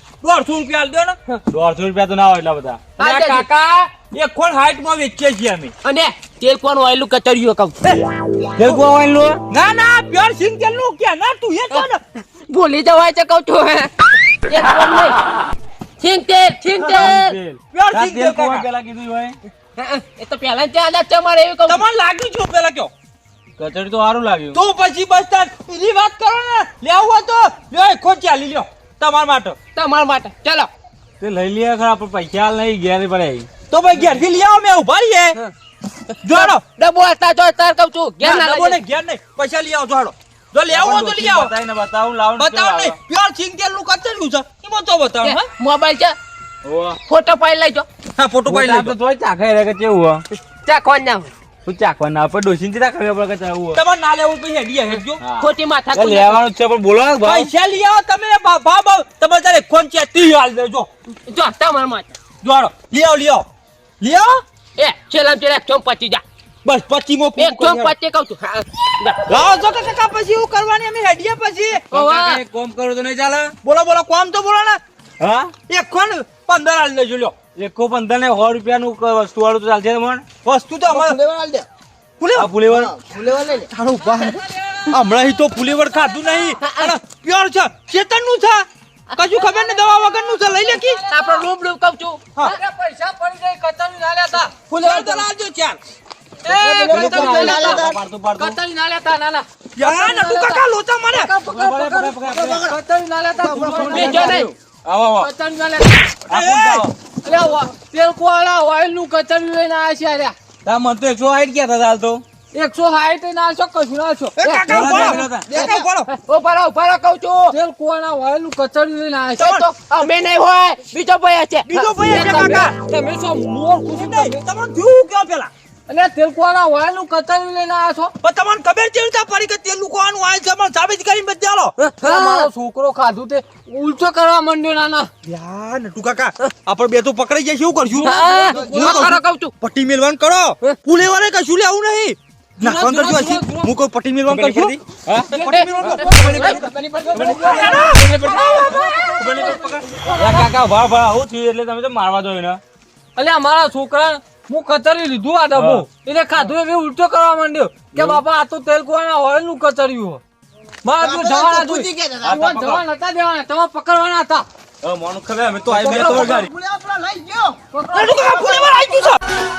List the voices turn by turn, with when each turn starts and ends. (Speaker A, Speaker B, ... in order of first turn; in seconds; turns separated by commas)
Speaker A: 0.2-1.2, Speaker B: 1.5-3.2, Speaker C: 3.0-3.9, Speaker A: 3.0-3.4, Speaker B: 4.1-5.7, Speaker C: 5.8-7.8, Speaker B: 8.6-9.4, Speaker A: 9.5-12.0, Speaker C: 12.5-15.2, Speaker C: 16.0-17.4, Speaker B: 16.8-19.4, Speaker A: 17.7-18.7, Speaker C: 19.8-21.8, Speaker A: 21.7-22.9, Speaker B: 23.6-24.6, Speaker A: 24.5-29.6, Speaker C: 29.7-30.7, Speaker B: 31.2-33.5, Speaker A: 33.7-35.4, Speaker C: 36.1-38.8, Speaker A: 36.2-36.6, Speaker A: 38.2-41.5, Speaker B: 40.7-43.0, Speaker A: 42.4-45.4, Speaker C: 45.2-46.1, Speaker B: 46.6-47.0, Speaker C: 47.0-47.9, Speaker A: 48.2-48.9, Speaker B: 48.5-50.2, Speaker C: 50.5-51.3, Speaker B: 51.6-53.8, Speaker A: 53.7-55.2, Speaker B: 55.2-57.5, Speaker C: 55.4-56.4, Speaker A: 57.2-60.9, Speaker C: 61.3-62.1, Speaker A: 62.4-63.5, Speaker A: 64.0-64.4, Speaker C: 64.8-66.2, Speaker A: 66.6-67.9, Speaker C: 67.4-69.3, Speaker A: 69.2-71.8, Speaker C: 71.9-72.4, Speaker B: 71.9-73.5, Speaker A: 73.6-74.8, Speaker B: 75.2-75.5, Speaker A: 75.7-77.3, Speaker B: 77.5-80.2, Speaker A: 80.4-81.2, Speaker D: 80.9-81.7, Speaker A: 82.2-82.5, Speaker B: 82.4-82.9, Speaker D: 82.6-83.7, Speaker A: 83.7-88.7, Speaker E: 84.0-85.0, Speaker C: 86.6-86.9, Speaker C: 89.2-89.5, Speaker A: 89.2-91.0, Speaker E: 89.7-91.5, Speaker C: 91.1-92.6, Speaker E: 92.4-95.2, Speaker A: 94.7-95.8, Speaker E: 96.4-100.5, Speaker D: 96.5-98.0, Speaker B: 96.9-98.6, Speaker A: 99.8-101.3, Speaker E: 101.1-104.5, Speaker B: 101.5-102.7, Speaker D: 102.2-102.8, Speaker D: 103.4-104.4, Speaker C: 103.8-104.5, Speaker B: 103.9-105.3, Speaker E: 105.2-105.9, Speaker B: 106.3-106.9, Speaker A: 106.3-106.9, Speaker E: 107.2-110.3, Speaker B: 110.7-112.2, Speaker E: 112.5-114.3, Speaker A: 114.4-116.1, Speaker C: 114.4-115.0, Speaker B: 114.7-115.5, Speaker D: 115.4-115.9, Speaker C: 115.6-117.5, Speaker E: 117.5-119.5, Speaker C: 119.4-122.7, Speaker A: 119.4-119.6, Speaker A: 121.7-122.7, Speaker E: 122.2-124.4, Speaker A: 123.8-125.5, Speaker E: 125.9-128.1, Speaker A: 128.2-131.7, Speaker C: 131.8-132.5, Speaker E: 132.0-135.1, Speaker A: 135.2-146.7, Speaker E: 137.9-139.0, Speaker C: 138.0-139.5, Speaker E: 142.6-143.7, Speaker B: 144.2-145.3, Speaker C: 145.3-146.7, Speaker D: 146.0-148.6, Speaker E: 147.1-150.5, Speaker B: 147.2-147.4, Speaker A: 147.2-150.1, Speaker B: 150.2-152.6, Speaker E: 153.2-160.2, Speaker B: 155.5-155.8, Speaker B: 157.9-158.2, Speaker E: 160.8-164.4, Speaker D: 161.0-162.5, Speaker B: 162.2-162.8, Speaker B: 164.8-166.5, Speaker D: 165.7-167.6, Speaker A: 165.7-166.4, Speaker E: 167.7-168.4, Speaker A: 167.9-169.2